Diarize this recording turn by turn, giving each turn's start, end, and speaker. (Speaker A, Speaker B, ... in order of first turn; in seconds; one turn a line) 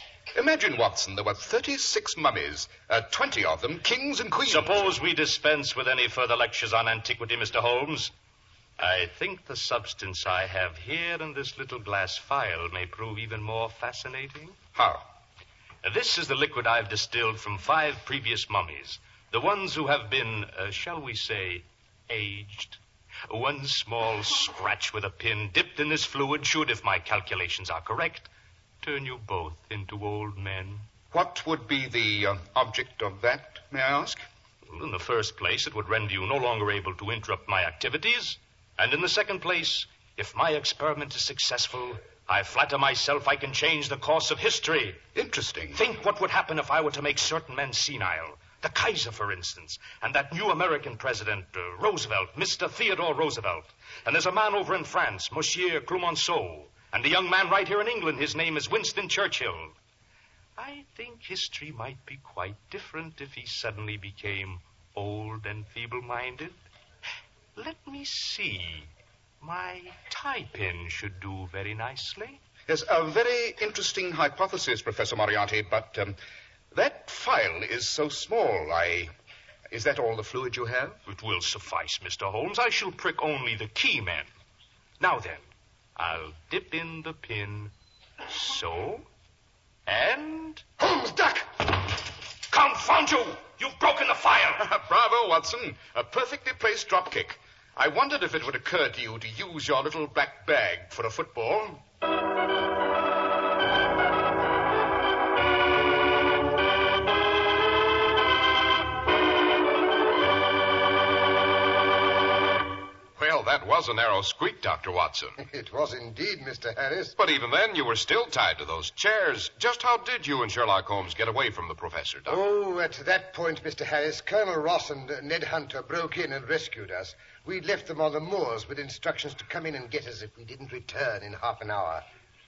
Speaker A: 0.3-4.8
Speaker B: 4.5-8.1
Speaker B: 8.8-14.6
Speaker A: 14.8-15.1
Speaker B: 15.8-28.3
Speaker B: 28.8-30.9
Speaker A: 31.1-34.2
Speaker B: 34.6-45.0
Speaker A: 45.1-45.8
Speaker B: 45.7-59.7
Speaker B: 60.6-66.6
Speaker B: 67.5-68.9
Speaker B: 69.4-72.4
Speaker A: 72.7-76.2
Speaker A: 76.7-79.1
Speaker A: 79.7-81.0
Speaker B: 81.1-84.3
Speaker B: 85.0-87.7
Speaker B: 88.2-89.1
Speaker B: 89.9-90.6
Speaker C: 90.8-91.5
Speaker B: 92.5-94.6
Speaker A: 94.5-101.8
Speaker D: 113.2-115.4
Speaker C: 115.4-117.2
Speaker D: 117.2-122.4
Speaker C: 122.3-132.0